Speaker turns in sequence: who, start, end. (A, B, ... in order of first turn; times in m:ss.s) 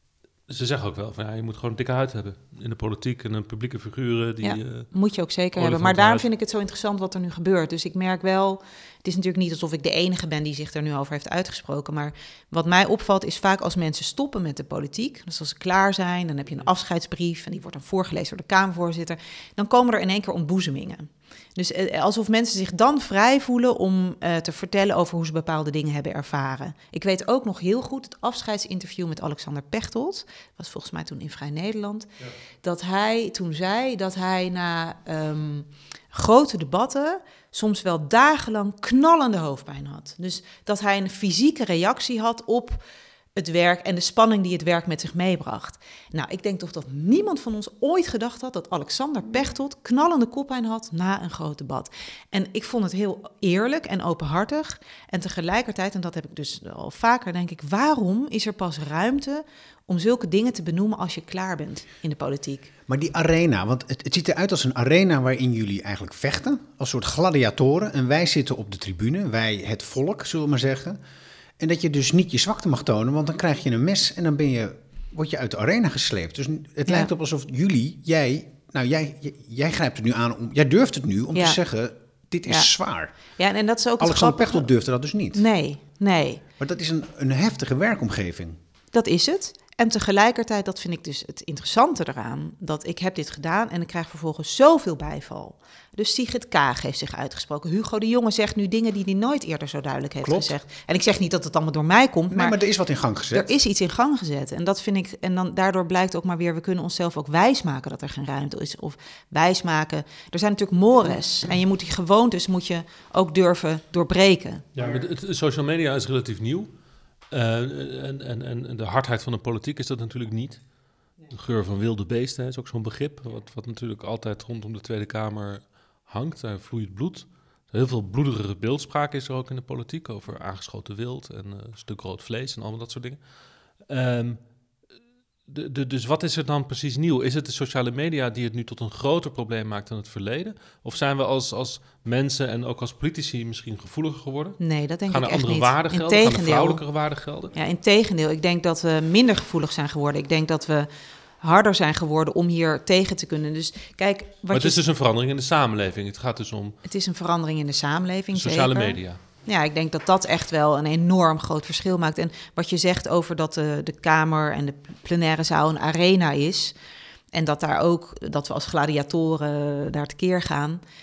0:00.5-0:05.0 A
0:04.4-0:32.1 B
0:05.6-0:06.2 A
0:32.6-0:42.8 B
0:43.3-1:02.7 B
1:02.9-1:11.0 C
1:11.6-1:23.2 C
1:22.4-1:24.7 B
1:24.0-1:25.4 C
1:25.3-1:26.4 B
1:26.6-1:28.6 C
1:28.9-1:42.6 B
1:40.2-1:40.5 C
1:42.3-1:43.5 C
1:43.3-1:54.6 B
1:54.7-2:14.8 A
2:15.4-2:27.5 A
2:24.6-2:27.0 B
2:27.5-2:30.9 B
2:31.4-2:34.8 B
2:34.5-2:36.8 A
2:36.8-2:46.7 B
2:38.3-2:39.2 A
2:47.3-2:50.8 B